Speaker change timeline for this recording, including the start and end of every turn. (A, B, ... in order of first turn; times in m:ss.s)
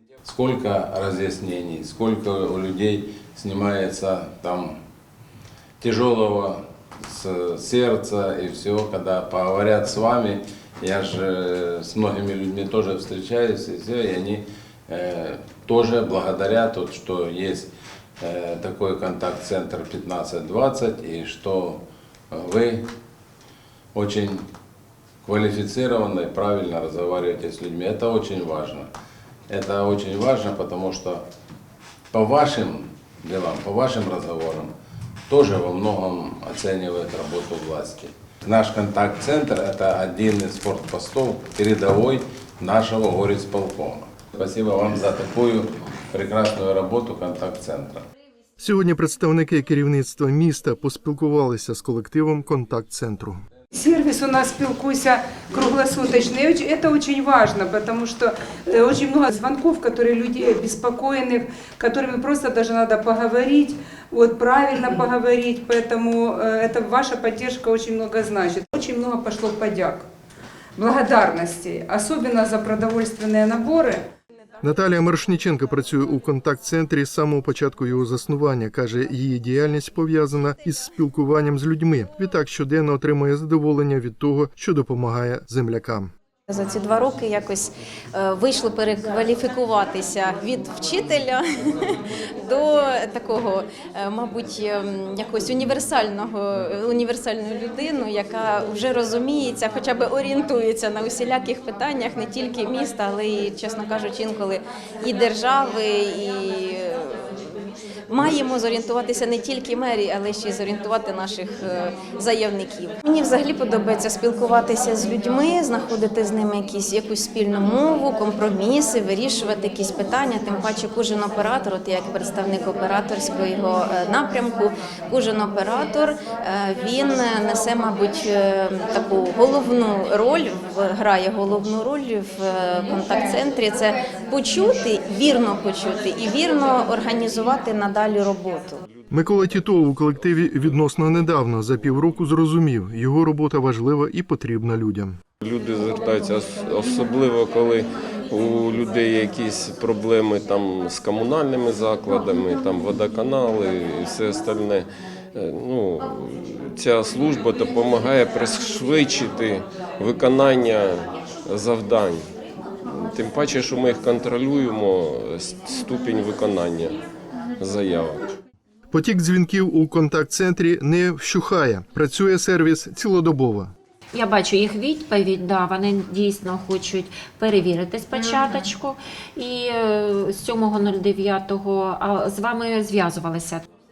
0:00.2-0:04.7 A
0:05.8-0:22.9 A
0:23.9-0:24.5 A
0:25.2-0:28.9 A
0:29.5-0:31.2 A
0:32.1-0:34.7 A
0:35.3-0:48.0 A
0:48.6-0:53.4 B
0:53.7-1:10.1 C
1:10.8-1:14.0 C
1:14.6-1:26.1 B
1:26.5-1:31.4 D
1:32.4-1:47.2 D
1:48.1-2:18.8 D
2:19.1-2:25.2 B
2:25.4-2:42.2 E
2:42.8-2:47.0 E
2:47.6-2:48.3 E
2:48.9-2:53.7 B
2:54.1-3:03.6 F